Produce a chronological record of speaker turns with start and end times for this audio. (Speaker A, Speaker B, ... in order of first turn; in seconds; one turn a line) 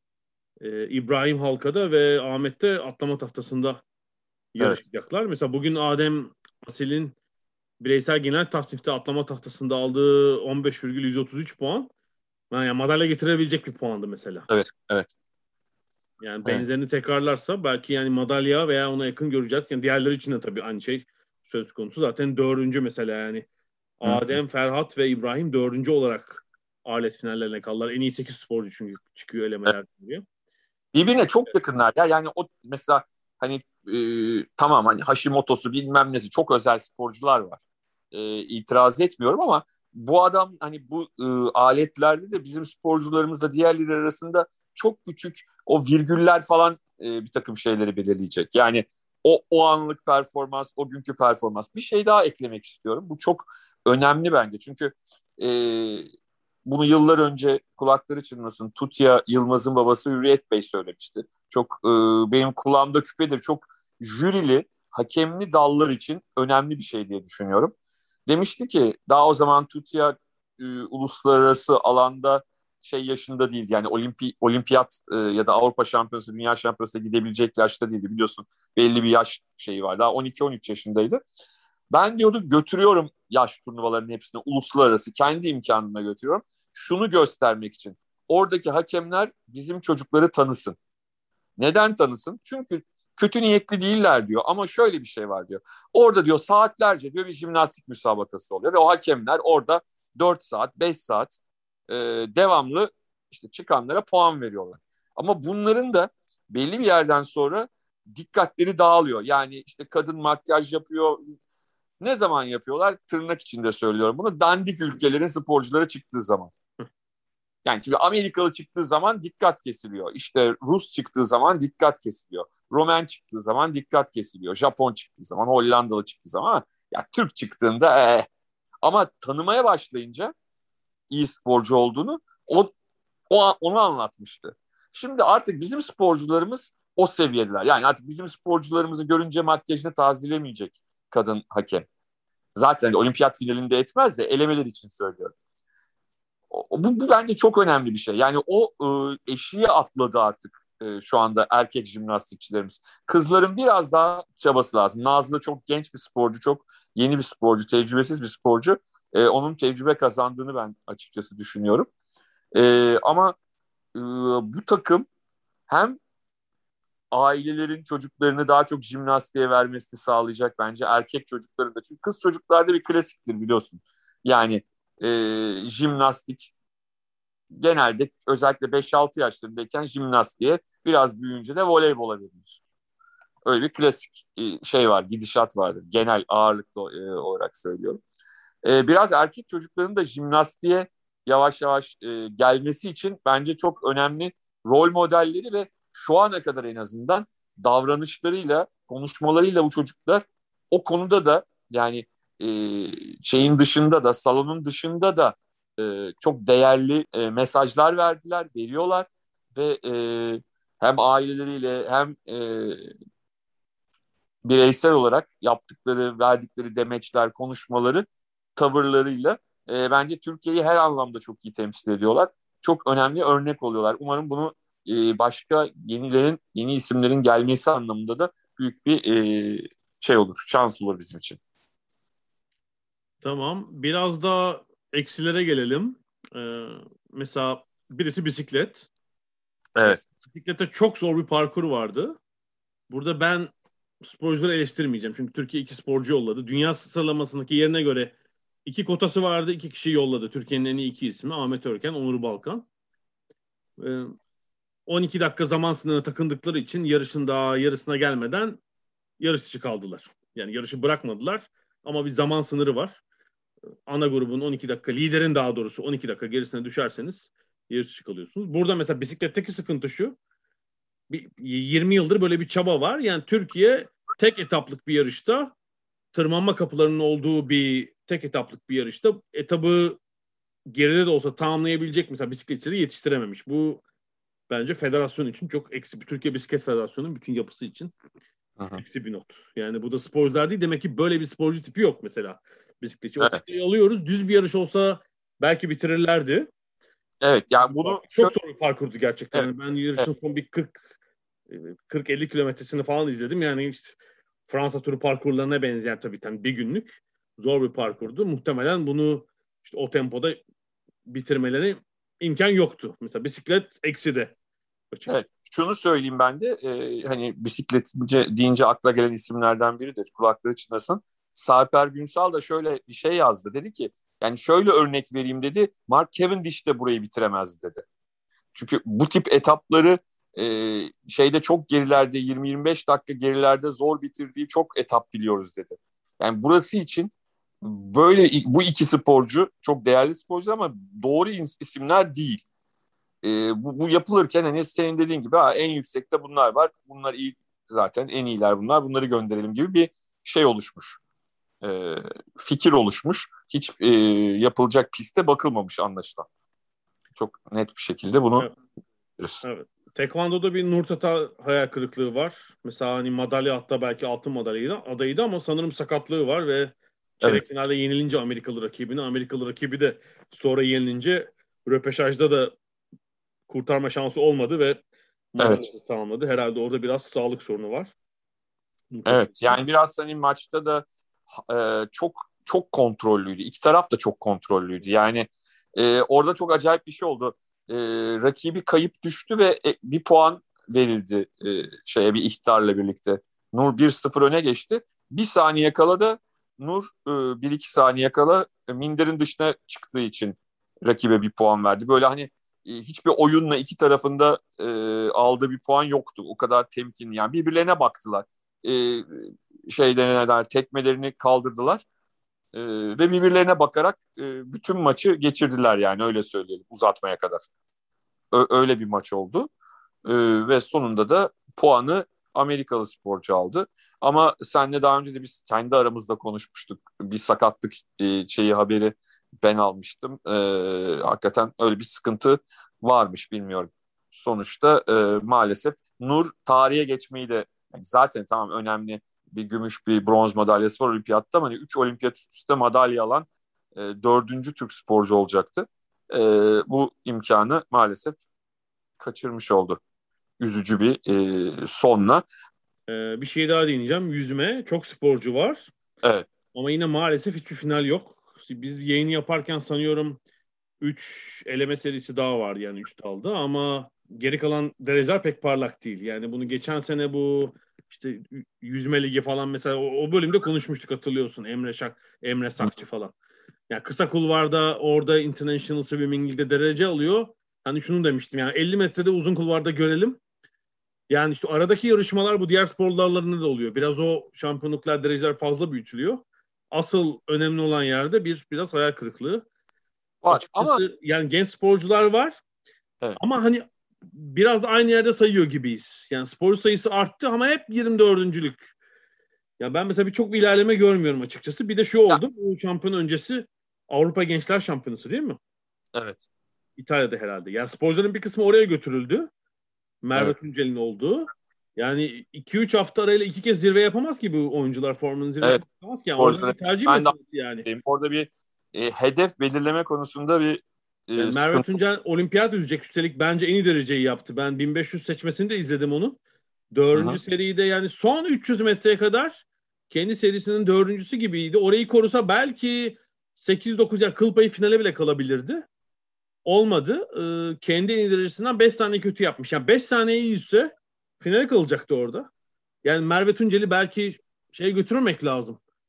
Speaker A: 0.6-3.8
Speaker A: 4.5-7.2
Speaker A: 7.8-11.9
Speaker A: 12.5-14.5
Speaker B: 14.5-15.1
Speaker A: 16.2-23.5
Speaker A: 24.0-30.2
Speaker B: 24.1-24.4
Speaker B: 30.9-37.6
Speaker B: 38.1-56.1
Speaker B: 56.6-67.7
Speaker B: 68.3-81.2
Speaker B: 81.9-90.8
Speaker B: 91.6-101.4
Speaker B: 101.9-111.3
Speaker B: 112.0-116.5
Speaker B: 117.7-128.3
Speaker B: 128.8-130.3
Speaker B: 131.1-132.7
Speaker B: 133.3-141.9
Speaker B: 142.6-145.3
Speaker B: 146.5-161.9
Speaker B: 162.5-163.3
Speaker B: 163.9-165.1
Speaker B: 165.7-166.0
Speaker B: 167.1-176.5
Speaker B: 177.5-182.6
Speaker B: 183.4-188.0
Speaker B: 188.6-212.9
Speaker B: 214.4-218.1
Speaker B: 218.6-231.4
Speaker A: 233.2-238.9
Speaker A: 239.8-242.2
Speaker A: 242.9-248.1
Speaker A: 248.7-252.7
Speaker A: 253.8-254.2
Speaker A: 254.9-258.6
Speaker A: 259.2-263.0
Speaker A: 263.9-270.2
Speaker A: 271.1-275.5
Speaker A: 276.1-280.0
Speaker A: 280.7-283.8
Speaker A: 284.5-287.9
Speaker A: 288.7-296.5
Speaker B: 297.2-298.3
Speaker A: 297.6-300.9
Speaker B: 299.3-300.1
Speaker A: 301.5-304.0
Speaker A: 304.5-310.4
Speaker A: 311.1-314.3
Speaker A: 314.9-315.2
Speaker B: 315.1-327.8
Speaker B: 328.6-337.1
Speaker B: 337.6-342.4
Speaker B: 343.2-351.0
Speaker B: 351.6-356.3
Speaker B: 357.2-358.5
Speaker A: 359.4-372.6
Speaker A: 373.5-374.8
Speaker A: 375.3-377.9
Speaker B: 375.4-375.6
Speaker A: 378.9-379.6
Speaker B: 379.1-411.8
Speaker B: 412.5-417.4
Speaker B: 418.3-419.5
Speaker B: 420.1-448.2
Speaker B: 449.0-449.8
Speaker B: 450.4-452.2
Speaker A: 452.9-455.7
Speaker A: 456.5-460.2
Speaker A: 460.8-473.1
Speaker A: 473.7-480.2
Speaker A: 481.1-489.4
Speaker B: 490.2-490.8
Speaker A: 490.3-492.4
Speaker A: 493.2-498.7
Speaker A: 499.6-505.4
Speaker B: 505.9-506.2
Speaker A: 506.8-509.3
Speaker A: 510.0-517.7
Speaker B: 516.2-521.6
Speaker A: 521.2-526.2
Speaker A: 526.7-535.6
Speaker B: 526.9-527.2
Speaker A: 536.5-542.3
Speaker A: 542.8-545.6